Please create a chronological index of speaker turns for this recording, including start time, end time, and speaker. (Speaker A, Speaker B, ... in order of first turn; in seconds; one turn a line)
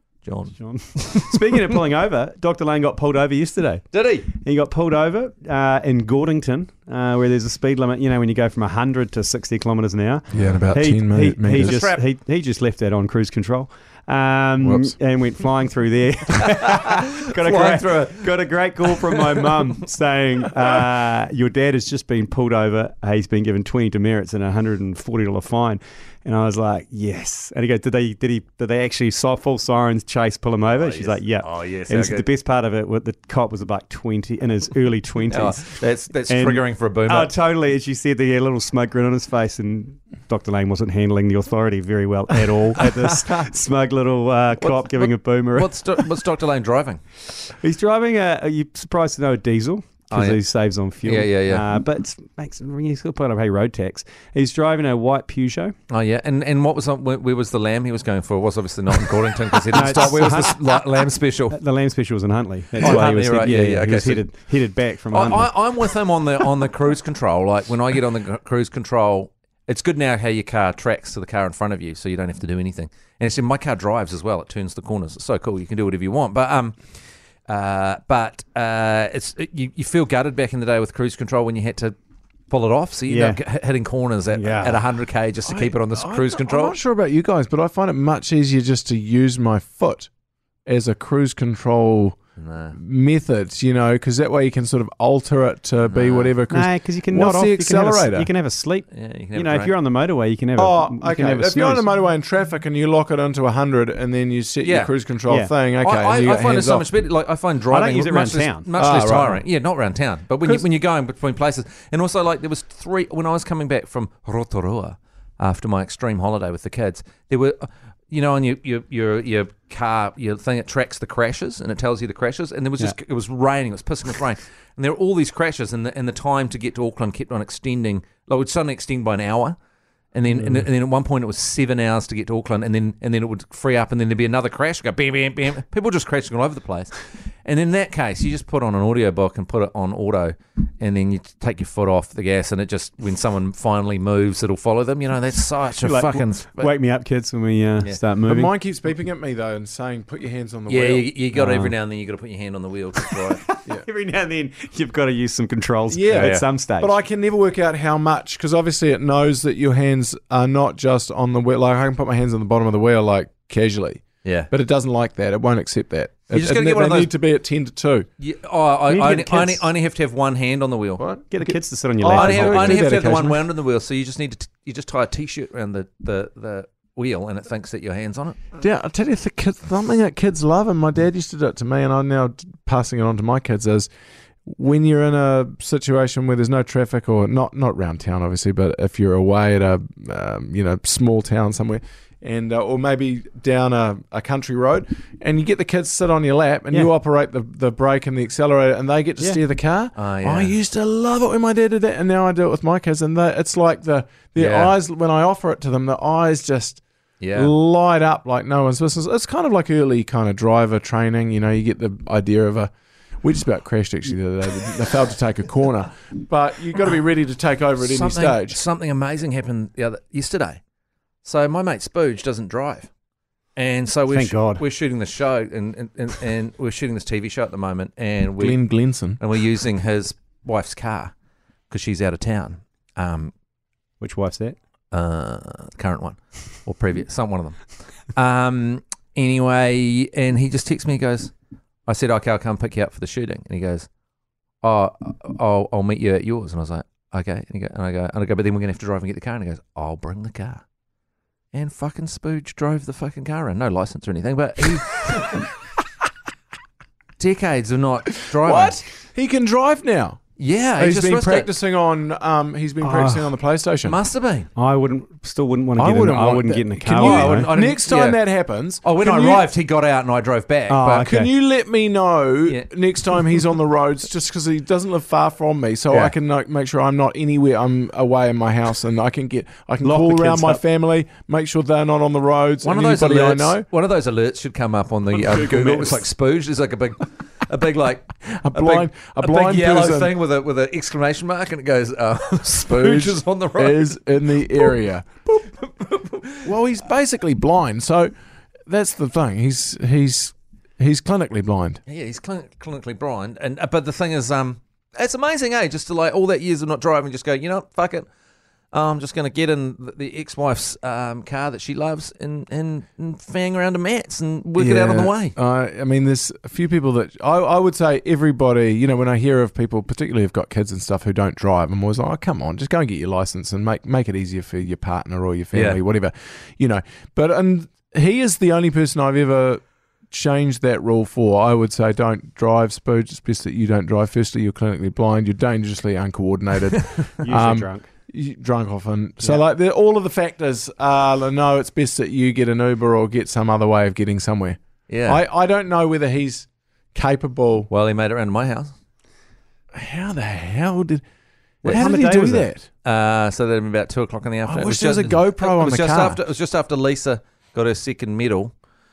Speaker A: 0.2-1.8
Speaker B: 0.6-46.2
Speaker A: 3.9-4.3
Speaker C: 10.3-11.8
Speaker A: 11.5-12.0
Speaker C: 14.6-14.9
Speaker A: 16.6-19.8
Speaker A: 30.8-32.2
Speaker A: 35.3-37.3
Speaker A: 42.8-43.4
Speaker A: 44.6-47.0
Speaker B: 47.4-55.7
Speaker A: 50.1-50.4
Speaker A: 51.0-51.6
Speaker A: 55.9-61.6
Speaker B: 59.7-60.7
Speaker B: 61.5-65.6
Speaker A: 62.8-64.2
Speaker A: 65.1-76.8
Speaker A: 77.5-81.9
Speaker A: 82.5-86.8
Speaker B: 83.1-83.4
Speaker B: 84.3-84.8
Speaker C: 85.5-90.1
Speaker C: 90.6-92.2
Speaker A: 92.4-92.8
Speaker C: 92.7-98.3
Speaker A: 95.8-96.3
Speaker B: 96.5-101.8
Speaker A: 98.9-99.7
Speaker C: 100.6-106.8
Speaker A: 104.6-104.9
Speaker A: 105.8-129.6
Speaker B: 107.7-108.8
Speaker C: 108.8-109.4
Speaker A: 130.1-146.7
Speaker B: 145.8-148.5
Speaker C: 148.2-151.1
Speaker A: 150.7-153.4
Speaker B: 151.3-151.7
Speaker B: 153.0-156.9
Speaker C: 155.9-168.1
Speaker A: 156.1-156.4
Speaker A: 164.2-164.5
Speaker A: 166.3-167.1
Speaker A: 168.2-171.0
Speaker B: 168.9-169.7
Speaker C: 171.0-173.4
Speaker B: 171.3-172.8
Speaker A: 172.1-178.4
Speaker C: 178.6-183.9
Speaker C: 184.4-206.8
Speaker A: 199.9-200.5
Speaker A: 204.3-204.7
Speaker A: 207.2-207.5
Speaker C: 207.3-218.6
Speaker A: 217.8-220.6
Speaker A: 221.2-222.9
Speaker A: 223.6-228.6
Speaker B: 224.1-224.6
Speaker C: 228.4-229.2
Speaker A: 229.2-231.1
Speaker A: 231.7-233.3
Speaker B: 234.0-234.6
Speaker A: 234.9-241.3
Speaker A: 241.8-243.9
Speaker A: 244.6-250.6
Speaker A: 251.5-255.4
Speaker A: 257.2-258.8
Speaker C: 258.1-260.2
Speaker A: 260.4-261.5
Speaker C: 260.8-264.0
Speaker B: 262.8-263.4
Speaker A: 263.8-264.5
Speaker B: 264.6-267.5
Speaker C: 265.8-269.5
Speaker A: 267.0-268.2
Speaker A: 268.8-271.1
Speaker B: 270.7-271.3
Speaker C: 270.9-283.7
Speaker B: 279.8-280.6
Speaker A: 282.6-293.9
Speaker C: 285.3-285.9
Speaker C: 288.4-290.1
Speaker C: 292.7-295.1
Speaker A: 295.3-296.5
Speaker C: 296.4-298.1
Speaker C: 298.7-301.8
Speaker A: 301.9-308.1
Speaker A: 308.7-315.3
Speaker C: 314.6-347.7
Speaker A: 325.5-325.8
Speaker B: 337.2-337.9
Speaker A: 344.9-345.2
Speaker A: 347.7-348.7
Speaker C: 349.7-351.0
Speaker B: 351.6-352.5
Speaker C: 351.6-352.7
Speaker A: 352.8-358.5
Speaker C: 354.4-356.2